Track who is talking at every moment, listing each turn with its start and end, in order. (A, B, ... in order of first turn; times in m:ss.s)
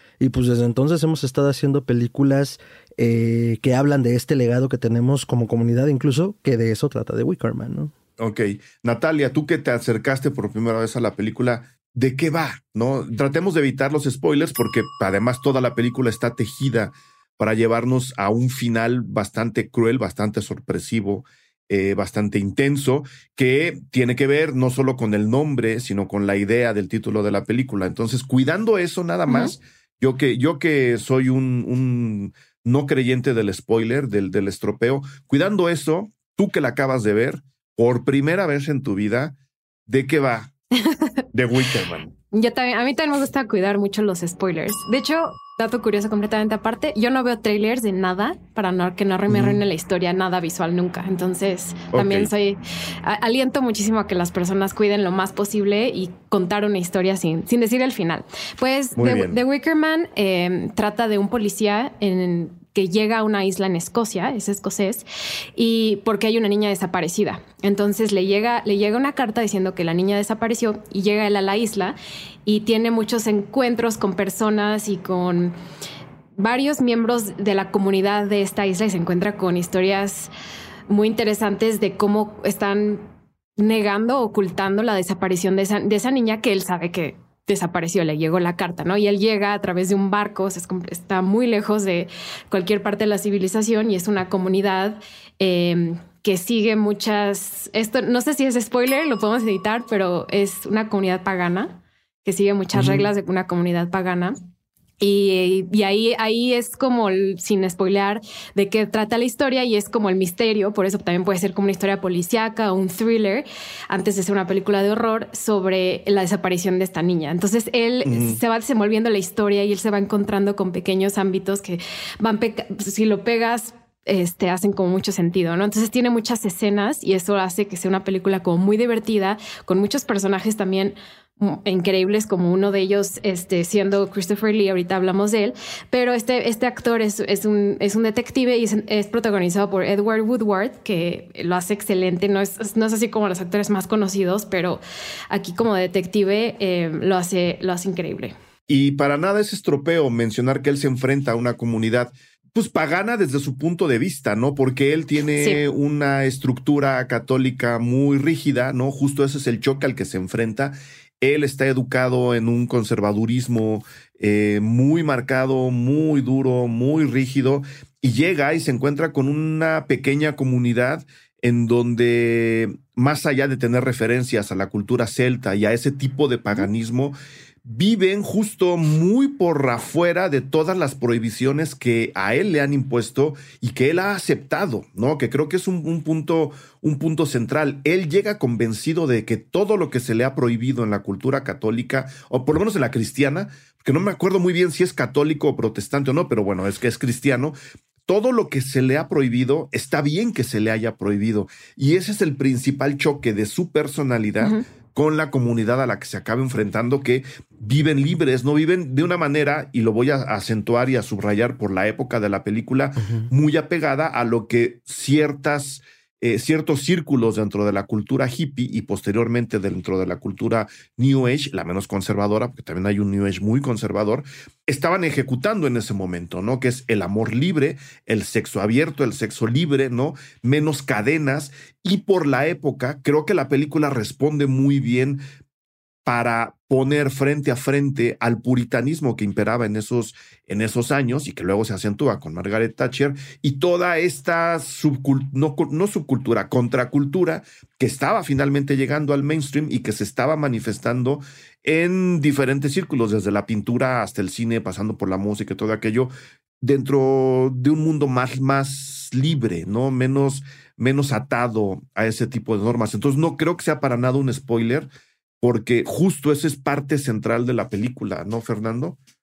0:00.2-0:07.9 A
0:08.2-0:39.3 B
0:29.3-0:29.5 C
0:39.9-0:40.5 B
0:40.8-0:41.1 C
0:41.3-0:42.1 B
0:42.3-1:15.5 C
0:49.3-0:49.6 B
0:51.9-0:52.3 B
0:59.0-0:59.4 B
1:16.4-1:20.3 C
1:20.9-1:23.0 C
1:23.6-1:44.4 C
1:42.7-1:43.1 B
1:45.0-2:24.8 C
1:58.0-1:58.4 B
2:25.3-2:28.3 C
2:28.7-3:17.6 B
3:18.1-3:55.2 B
3:33.0-3:33.3 A
3:56.0-4:16.1 B
4:16.6-4:24.9 B
4:25.4-4:29.0 B